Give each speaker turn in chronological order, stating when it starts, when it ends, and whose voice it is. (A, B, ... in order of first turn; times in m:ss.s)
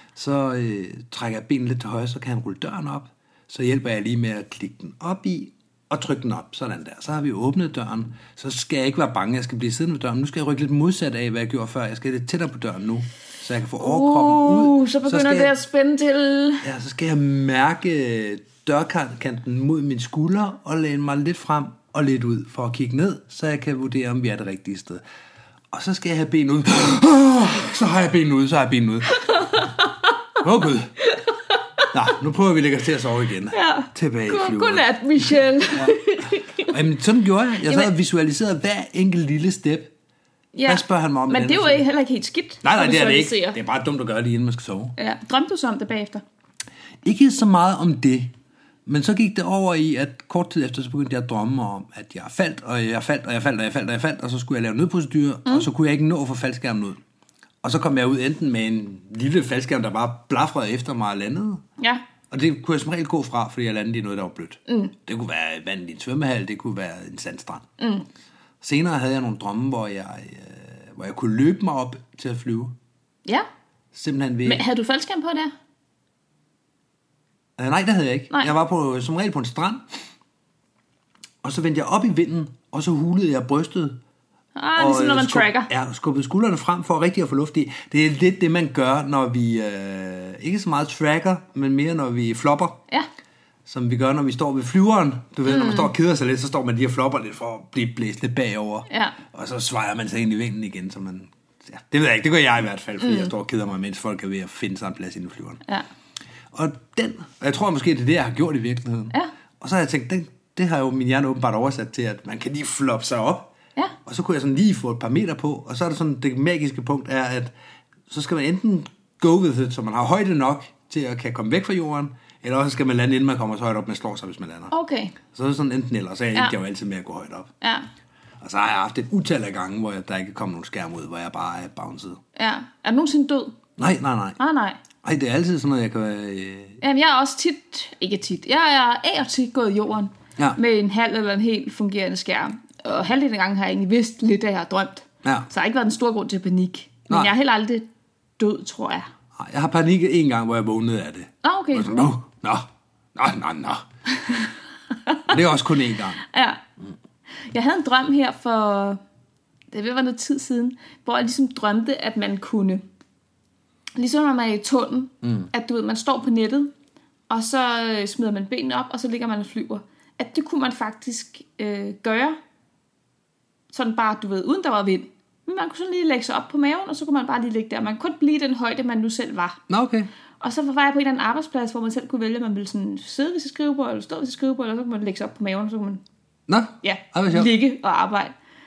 0:00.1-0:15.6 A
0:13.8-0:16.6 B
0:16.6-0:25.0 A
0:25.7-0:29.7 A
0:29.1-0:30.1 B
0:30.4-0:30.9 A
0:31.0-0:31.9 B
0:31.9-0:36.0 A
0:33.5-0:36.7 B
0:36.6-0:39.9 A
0:37.6-0:37.9 B
0:40.5-0:43.6 B
0:40.7-0:41.8 A
0:42.6-0:44.9 A
0:45.0-0:46.2 B
0:47.0-0:48.3 A
0:48.9-0:57.0 A
0:57.6-1:01.6 A
1:02.3-1:07.6 A
1:04.7-1:04.9 B
1:07.8-1:08.1 B
1:08.6-1:12.7 A
1:13.9-1:14.6 A
1:14.4-1:15.5 B
1:17.6-1:19.8 A
1:21.4-1:24.0 A
1:24.6-1:25.7 B
1:24.8-1:32.8 A
1:33.6-1:45.6 A
1:35.4-1:35.9 B
1:38.9-1:39.2 B
1:43.0-1:43.3 B
1:46.5-1:53.5 A
1:54.0-1:57.5 A
1:58.1-2:04.7 A
2:04.7-2:05.2 B
2:05.3-2:07.5 A
2:07.6-2:07.9 B
2:08.4-2:12.2 A
2:12.4-2:13.6 B
2:13.8-2:14.4 A
2:14.4-2:14.8 B
2:15.0-2:16.8 A
2:16.8-2:27.9 B
2:25.2-2:25.5 A
2:28.4-2:29.1 B
2:29.4-2:33.8 A
2:31.4-2:32.1 B
2:34.2-2:34.5 B
2:35.3-2:36.2 A
2:36.2-2:36.6 B
2:37.5-2:39.0 B
2:39.7-2:42.8 B
2:44.0-2:46.7 B
2:45.2-2:45.5 A
2:47.3-2:52.4 B
2:53.7-2:59.6 B
2:59.7-3:00.1 A
3:00.4-3:06.0 B
3:06.5-3:07.5 A
3:06.8-3:08.4 B